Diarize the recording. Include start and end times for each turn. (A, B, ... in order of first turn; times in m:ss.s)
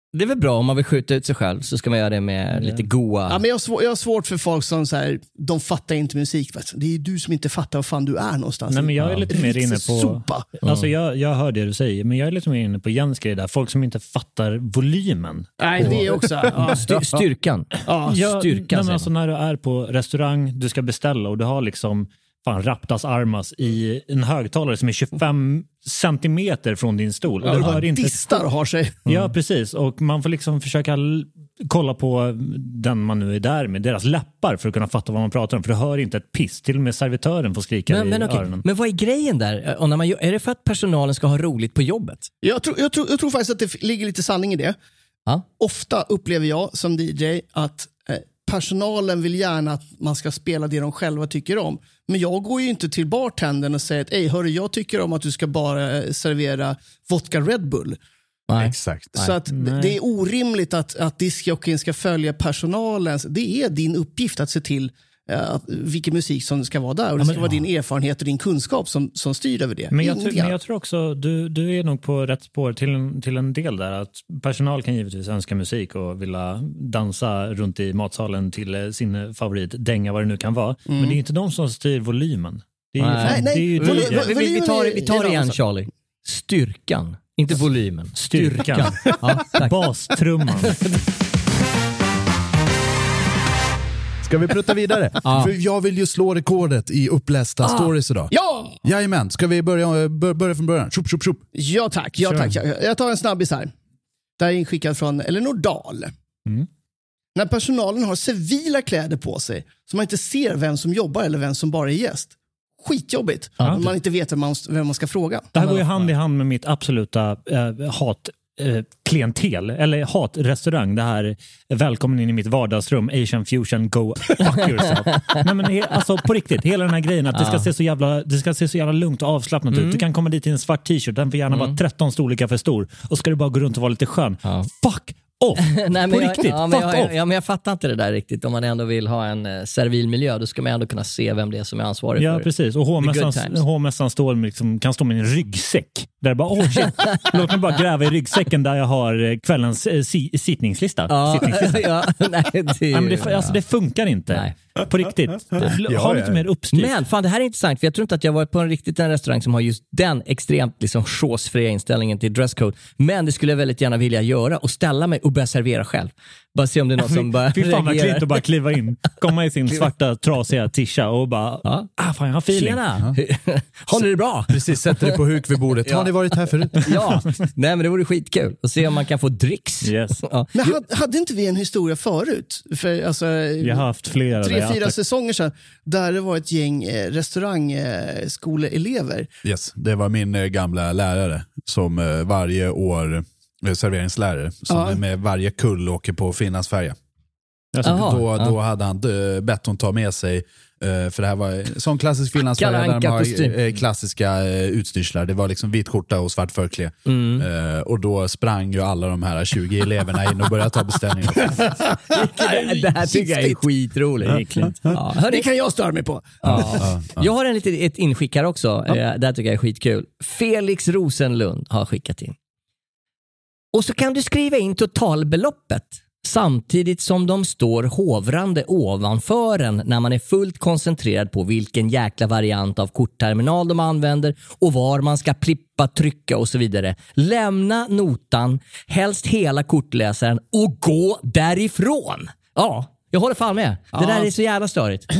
0:00.1-0:03.4 A
0:02.6-0:02.8 B
0:03.3-0:10.4 C
0:08.7-0:16.1 B
0:09.0-0:09.3 A
0:10.6-0:10.9 A
0:15.6-0:16.9 C
0:15.8-0:16.0 A
0:16.6-0:19.1 A
0:17.9-0:18.2 C
0:18.0-0:28.4 B
0:27.4-0:29.0 C
0:29.0-0:29.3 A
0:29.0-0:38.6 B
0:37.9-0:42.3 A
0:42.4-0:44.8 C
0:45.6-0:58.0 C
0:58.5-0:59.3 A
0:58.6-0:59.1 D
0:59.1-1:10.6 C
0:59.5-1:00.0 B
1:07.2-1:07.5 A
1:09.9-1:24.3 B
1:20.9-1:21.2 C
1:23.0-1:29.7 A
1:23.2-1:25.6 C
1:28.2-1:30.8 B
1:34.2-1:38.3 D
1:35.2-1:35.5 A
1:38.3-1:38.8 C
1:38.8-1:41.4 D
1:41.5-1:43.7 C
1:42.2-1:42.6 B
1:44.4-1:46.1 C
1:47.4-1:55.5 C
1:53.6-1:53.9 A
1:55.5-2:17.1 B
1:55.6-1:56.1 A
2:04.4-2:05.4 A
2:07.3-2:07.7 A
2:09.7-2:10.0 A
2:11.5-2:11.8 A
2:14.4-2:14.7 A
2:15.6-2:22.5 A
2:22.2-2:32.0 B
2:23.0-2:23.6 A
2:26.8-2:27.3 A
2:31.1-2:33.6 A
2:32.9-2:36.9 B
2:35.6-2:36.4 D
2:36.7-2:48.4 A
2:47.0-2:52.8 B
2:52.5-2:55.2 A
2:54.5-2:57.1 D
2:55.8-2:56.1 A
2:56.6-3:00.5 A
2:59.8-3:00.2 B
3:00.5-3:03.9 C
3:03.6-3:05.0 B
3:04.4-3:09.3 C
3:09.4-3:17.0 D
3:14.7-3:15.0 C
3:17.7-3:18.1 B
3:17.8-3:31.6 D
3:17.8-3:18.5 A
3:22.5-3:23.6 A
3:27.0-3:27.5 A
3:31.4-3:33.6 C
3:32.1-3:35.5 A
3:34.2-3:34.7 B
3:35.1-3:36.9 C
3:36.4-3:42.4 A
3:36.5-3:37.3 D
3:43.7-4:05.1 A
4:03.9-4:04.3 C